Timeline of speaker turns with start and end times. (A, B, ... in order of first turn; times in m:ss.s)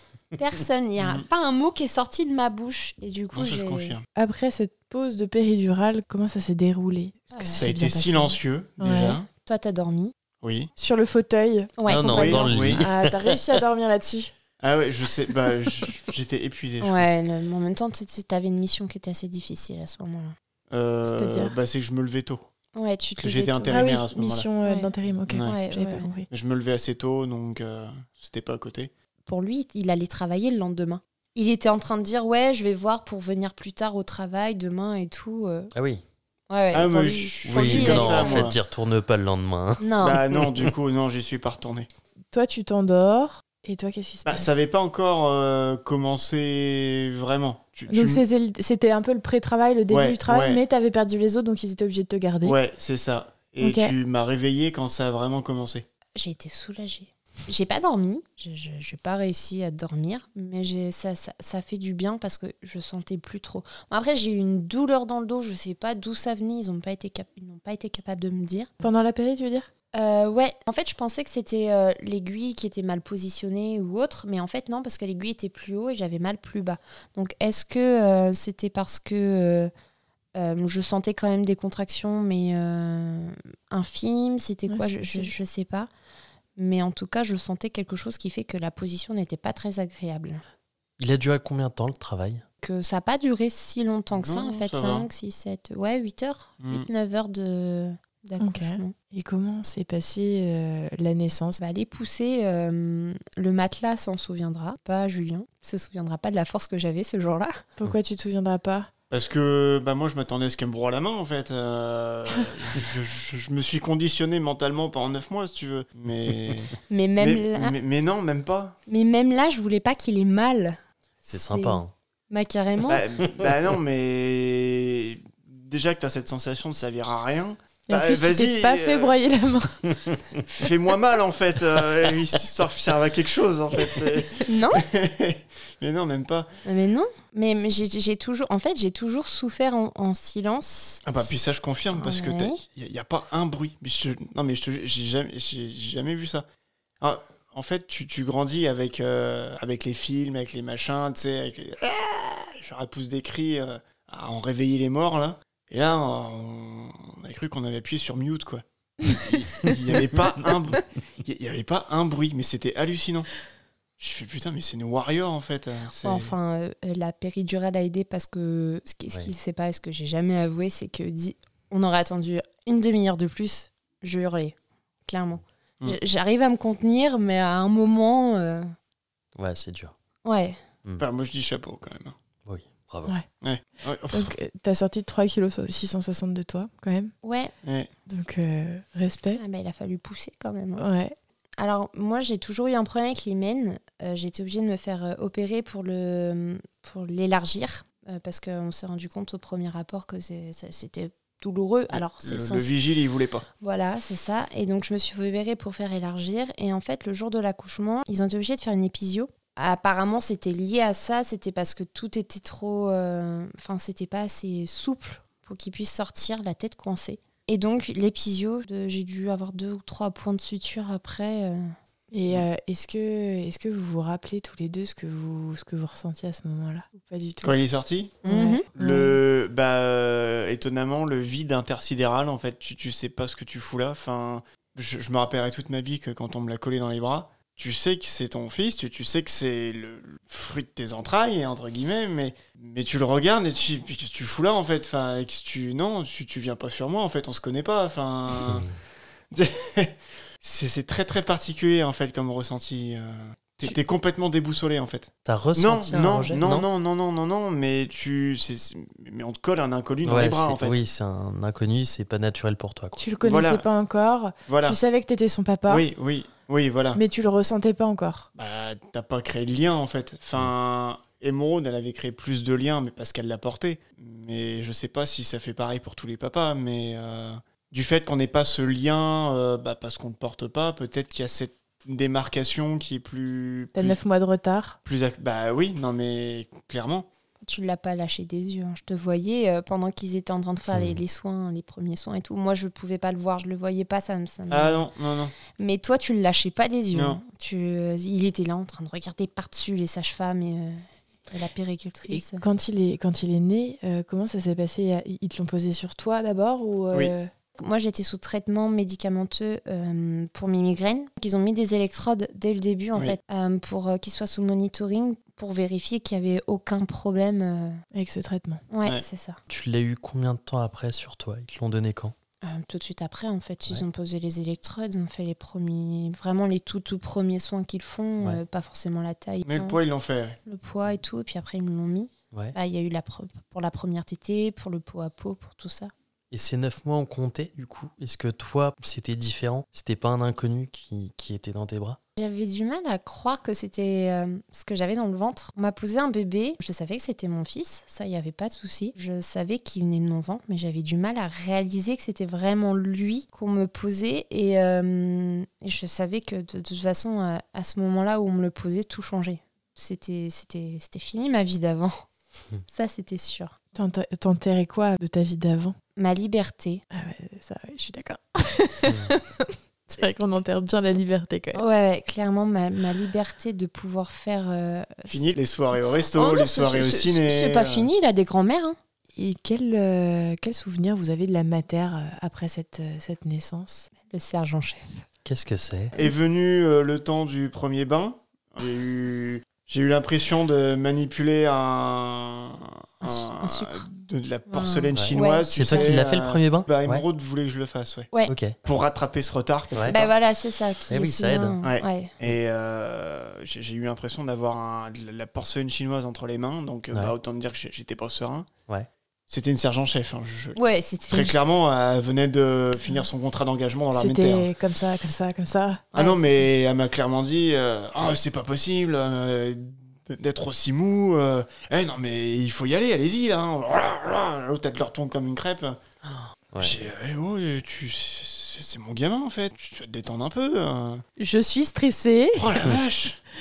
0:00.3-0:03.9 A
0:01.0-0:01.3 B
0:03.3-0:04.0 B
0:04.1-0:09.2 C
0:07.3-0:07.6 A
0:07.5-0:09.3 B
0:09.0-0:10.1 A
0:10.4-0:10.7 B
0:10.8-0:14.3 C
0:11.8-0:12.5 A
0:11.9-0:13.3 D
0:12.1-0:12.8 B
0:14.6-0:17.1 B
0:16.8-0:20.3 A
0:20.7-0:22.5 B
0:21.0-0:21.5 C
0:22.7-0:23.9 A
0:23.2-0:24.5 B
0:23.7-0:26.3 C
0:24.6-0:26.1 A
0:25.3-0:25.6 B
0:26.3-0:28.9 B
0:29.2-0:35.7 A
0:35.7-0:36.0 D
0:36.5-0:38.5 A
0:36.7-0:38.6 B
0:37.4-0:40.7 D
0:39.8-0:40.2 A
0:40.0-0:41.9 B
0:42.3-0:44.6 C
0:44.2-0:48.2 B
0:47.9-0:52.6 C
0:49.9-0:50.6 B
0:52.4-0:55.8 B
0:53.6-0:53.9 C
0:56.1-1:08.7 A
1:08.8-1:09.7 C
1:09.9-1:19.7 A
1:20.3-1:25.9 A
1:24.7-1:25.3 C
1:26.6-1:30.4 A
1:31.0-1:32.4 D
1:32.6-1:38.9 A
1:34.1-1:35.1 B
1:36.6-1:36.9 B
1:38.4-1:41.6 C
1:41.6-1:47.6 A
1:47.8-1:48.9 C
1:49.1-1:58.8 B
1:56.9-1:57.7 A
1:58.9-2:03.0 A
2:01.3-2:01.9 D
2:02.9-2:09.2 B
2:07.9-2:09.9 C
2:09.9-2:10.4 D
2:10.4-2:16.5 B
2:14.4-2:14.8 A
2:16.6-2:21.4 A
2:21.0-2:26.4 B
2:21.9-2:22.6 A
2:27.0-2:43.3 B
2:44.0-2:46.3 B
2:46.0-2:58.7 A
2:59.3-2:59.9 D
3:00.2-3:00.6 A
3:01.0-3:02.2 B
3:02.4-3:03.1 D
3:03.4-3:04.3 B
3:04.1-3:07.1 C
3:07.2-3:07.5 A
3:07.6-3:07.9 B
3:08.1-3:09.4 C
3:09.4-3:10.8 A
3:10.8-3:11.1 C
3:11.6-3:22.7 A
3:21.9-3:23.4 B
3:23.6-3:41.7 A
3:42.1-3:47.6 C
3:47.4-4:08.7 B
3:48.2-3:49.2 C
3:48.2-3:48.6 A
4:09.3-4:20.8 B
4:15.2-4:16.7 D
4:20.0-4:23.0 D
4:23.0-4:25.9 C
4:23.2-4:23.6 B
4:24.5-4:24.8 B
4:25.7-4:27.0 B
4:26.9-4:28.3 C
4:28.3-4:44.0 B
4:43.7-4:44.8 C
4:44.8-4:47.1 B
4:47.4-4:54.9 A
4:50.7-4:51.0 D
4:54.5-4:55.3 B
4:55.5-5:02.4 A
4:56.9-4:57.2 B
5:02.1-5:07.3 C
5:07.6-5:17.8 A
5:17.9-5:18.6 C
5:18.7-5:19.4 A
5:19.5-5:22.1 D
5:22.4-5:29.8 A
5:29.4-5:30.4 B
5:30.4-5:35.9 A
5:36.3-5:42.0 D
5:42.2-6:02.0 A
6:02.6-6:03.5 A
6:03.7-6:05.8 C
6:06.0-6:06.8 A
6:06.9-6:11.6 C
6:11.5-6:15.2 A
6:15.1-6:17.9 B
6:16.1-6:18.8 A
6:19.2-6:23.9 C
6:24.0-6:25.0 A
6:25.2-6:25.9 D
6:25.9-6:38.1 B
6:33.0-6:33.8 A
6:34.5-6:35.9 A
6:34.9-6:37.0 D
6:38.3-6:38.5 D
6:38.6-6:40.1 B
6:39.7-6:40.0 D
6:39.9-6:42.1 A
6:40.9-6:41.6 D
6:41.6-6:48.5 B
6:49.3-6:54.5 B
6:50.6-6:51.4 A
6:53.9-6:55.9 C
6:55.9-7:05.8 B
6:55.9-6:56.3 A
7:06.0-7:06.8 D
7:06.6-7:11.0 B
7:11.2-7:12.5 C
7:12.3-7:13.2 B